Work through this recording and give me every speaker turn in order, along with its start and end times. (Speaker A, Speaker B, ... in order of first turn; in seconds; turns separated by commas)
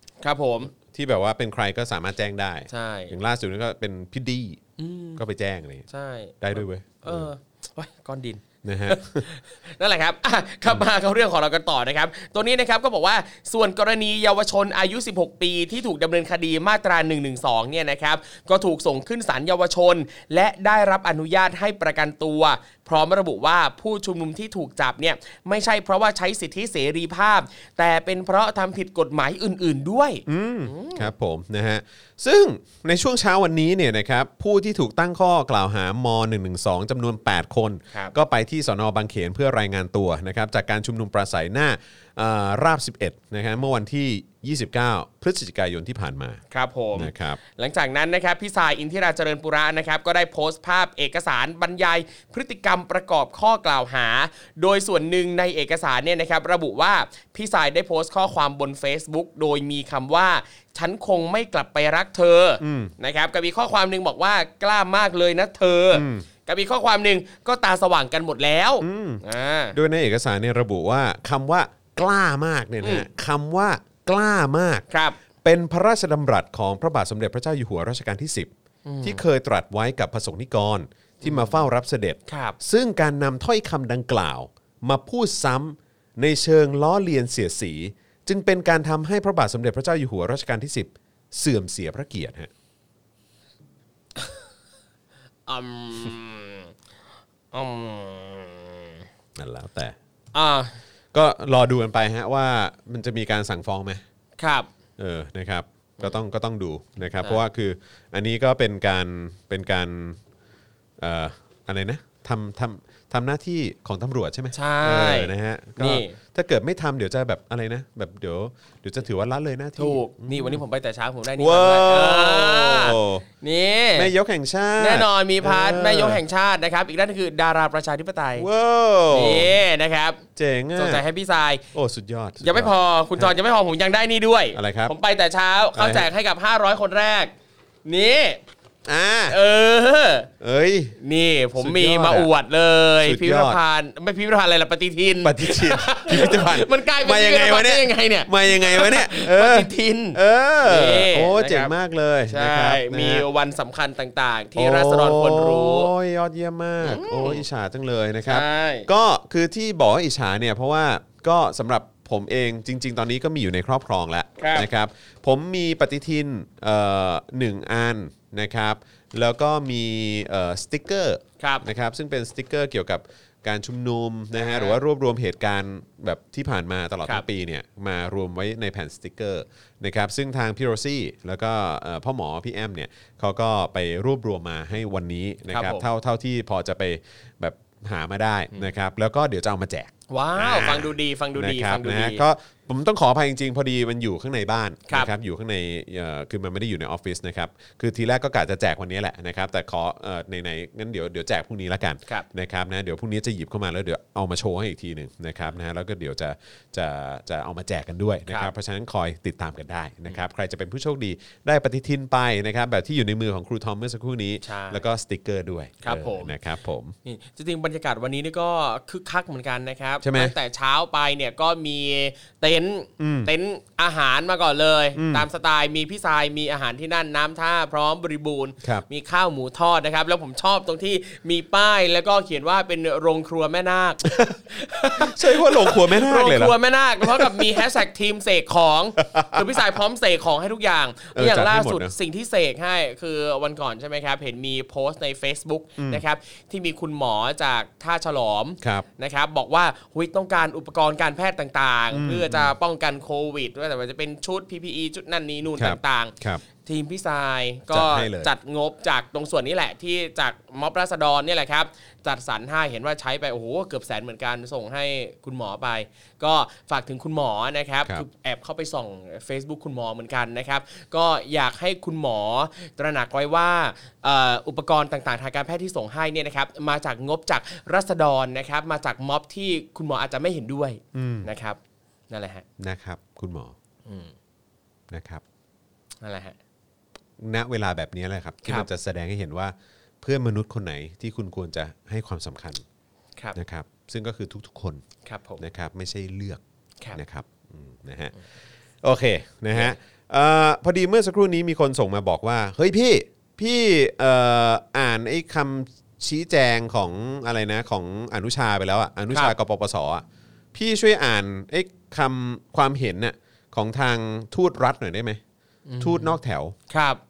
Speaker A: 0.2-0.7, Speaker B: 0.7-4.6, Speaker A: 2.7-3.2, Speaker A: 4.8-5.2, Speaker B: 5.2-5.9, Speaker A: 5.9-31.1, Speaker B: 6.4-7.3, Speaker B: 8.6-9.3, Speaker B: 30.3-46.4, Speaker A: 46.5-69.8, Speaker B: 47.0-47.4, Speaker B: 62.6-62.9, Speaker B: 65.9-66.3, Speaker B: 68.8-74.8, Speaker A: 72.8-73.1, Speaker A: 74.9-75.2, Speaker B: 75.4-78.5, Speaker A: 78.8-79.2, Speaker B: 79.0-92.5, Speaker A: 81.2-81.6, Speaker A: 82.3-82.6, Speaker A: 95.5-96.7, Speaker A: 97.5-99.0, Speaker B: 99.4-100.0, Speaker A: 100.3-100.7, Speaker B: 101.1-104.0, Speaker A: 104.4-104.7, Speaker B: 105.0-110.2, Speaker B: 111.0-120.6, Speaker A: 114.5-116.2, Speaker A: 119.8-124.1, Speaker B: 121.4-123.2, Speaker B: 124.0-126.2, Speaker A: 124.8-128.5, Speaker B: 128.4-129.6, Speaker A: 129.1-130.2, Speaker B: 130.4-131.0, Speaker A: 130.8-131.7, Speaker B: 131.7-133.3, Speaker A: 132.4-137.3, Speaker B: 134.6-134.9, Speaker B: 135.8-136.1, Speaker A: 137.9-138.4, Speaker B: 138.9-139.4, Speaker A: 139.3-140.3, Speaker B: 140.4-141.0, Speaker A: 141.0-151.7, Speaker B: 141.6-142.3, Speaker B: 143.0-143.6, Speaker B: 145.2-153.3, Speaker A: 152.3-155.9, Speaker B: 154.6-216.9, Speaker A: 156.8-157.4, Speaker A: 158.3-158.9, Speaker A: 164.4-164.7, Speaker A: 171.4-171.7, Speaker A: 174.4-174.8, Speaker A: 185.5-185.8, Speaker A: 190.1-192.2, Speaker A: 214.4-214.8, Speaker A: 215.8-216.3, Speaker A: 217.1-281.6, Speaker B: 220.0-220.3, Speaker B: 223.0-223.3, Speaker B: 225.0-225.3, Speaker B: 235.0-237.6, Speaker B: 239.0-239.6, Speaker B: 241.2-241.9, Speaker B: 245.8-246.0, Speaker B: 248.6-248.9, Speaker B: 251.9-252.5, Speaker B: 255.6-256.4, Speaker B: 257.7-258.3, Speaker B: 280.9-281.3, Speaker A: 282.1-282.4, Speaker B: 282.6-283.6, Speaker A: 283.9-284.1, Speaker B: 284.9-285.2, Speaker A: 286.0-286.4, Speaker B: 287.2-292.6, Speaker B: 293.4-294.8, Speaker A: 295.1-295.4, Speaker B: 295.4-296.4, Speaker B: 296.9-298.1, Speaker B: 298.8-315.2, Speaker A: 315.7-316.2, Speaker B: 315.8-316.6, Speaker A: 316.7-317.0